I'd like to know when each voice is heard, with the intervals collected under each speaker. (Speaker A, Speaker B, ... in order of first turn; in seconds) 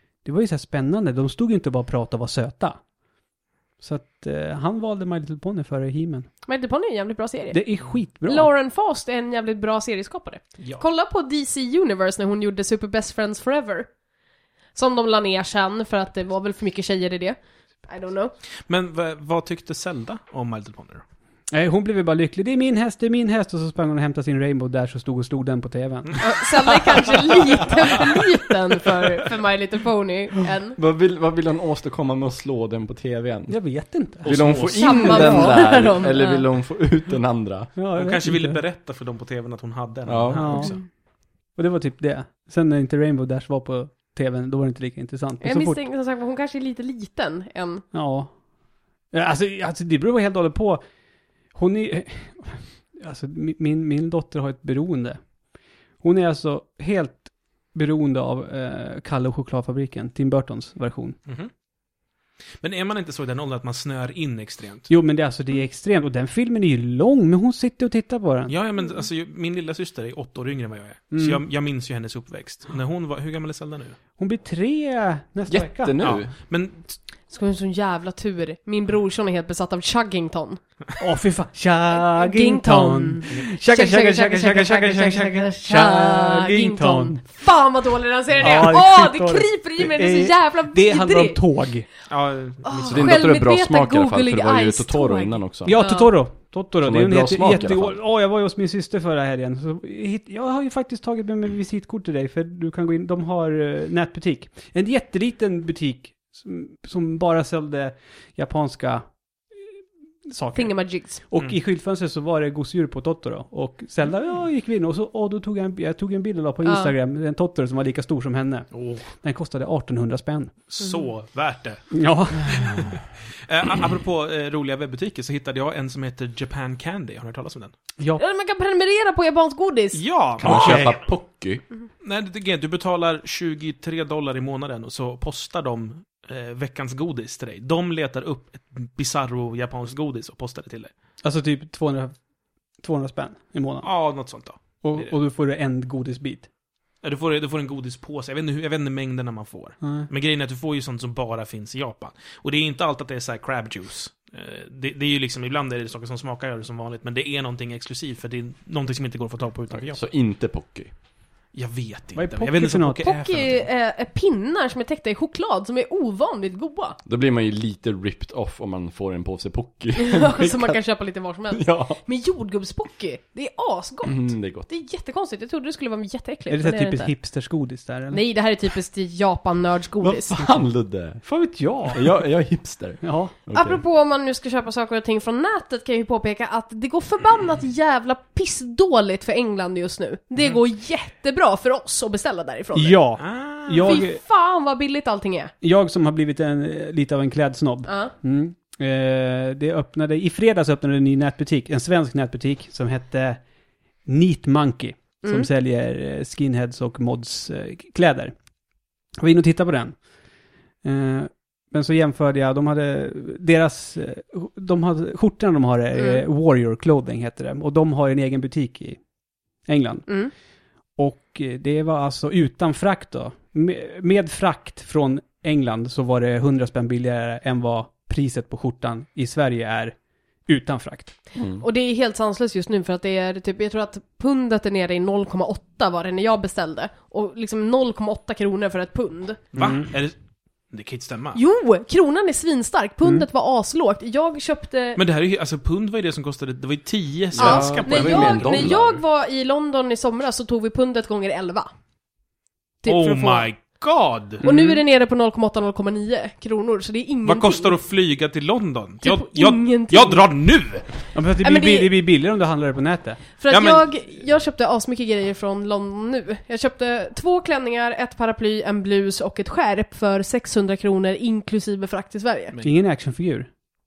Speaker A: 0.2-2.8, 3.8-6.3, 7.5-8.5, 21.5-26.2, 33.5-35.5, 37.7-38.6, 40.4-40.7, 41.5-45.8, 47.9-48.3, 49.1-50.8, 51.5-55.2, 56.0-61.1, 64.9-68.5, 71.1-71.4, 74.2-76.0, 81.0-87.2, 88.4-91.9, 95.6-109.1, 110.3-120.5, 121.9-122.8, 141.2-142.2, 142.8-144.0, 144.8-146.5, 149.8-150.1, 162.1-163.1, 176.5-178.2, 181.2-182.1, 183.0-183.3, 192.7-194.2, 195.6-203.4, 204.0-208.3, 209.2-210.0, 210.8-219.0, 219.6-220.3, 220.9-231.2, 239.6-239.9, 254.4-254.8, 261.1-263.2, 272.6-273.5
Speaker B: 6.5-7.6, 8.2-13.9, 14.7-18.3, 26.2-30.8, 34.7-36.4, 45.4-47.9, 77.3-80.6, 82.0-91.4, 92.6-96.1, 110.5-111.2, 116.6-116.9, 128.2-130.0, 163.1-167.0, 169.9-177.1, 178.1-180.5, 183.5-193.1, 193.8-195.5, 197.8-198.1, 205.2-205.5, 215.9-216.2, 220.1-220.3, 231.6-239.4, 241.3-245.0, 247.4-251.7, 252.8-253.4, 254.4-257.8, 259.0-260.2, 261.4-262.0, 263.4-272.6
Speaker C: 18.7-21.0, 34.2-35.1, 37.9-40.8, 61.2-61.5, 62.6-64.9, 68.5-74.0, 76.0-77.0, 92.1-93.2, 118.7-119.1, 120.7-127.7, 129.9-131.0, 132.0-140.9, 143.8-145.1, 147.0-160.0, 161.5-163.7, 193.2-194.0, 239.5-240.1, 240.7-241.4, 244.9-248.7, 252.8-254.4, 257.2-260.9, 263.5-263.9
Speaker D: 30.8-37.7, 40.0-40.6, 75.5-76.3, 92.9-95.8, 96.8-98.0, 130.4-131.6, 159.9-160.9, 167.1-170.8, 171.5-172.0, 174.1-174.7, 180.0-181.2, 181.9-183.8, 231.3-231.6, 247.3-249.0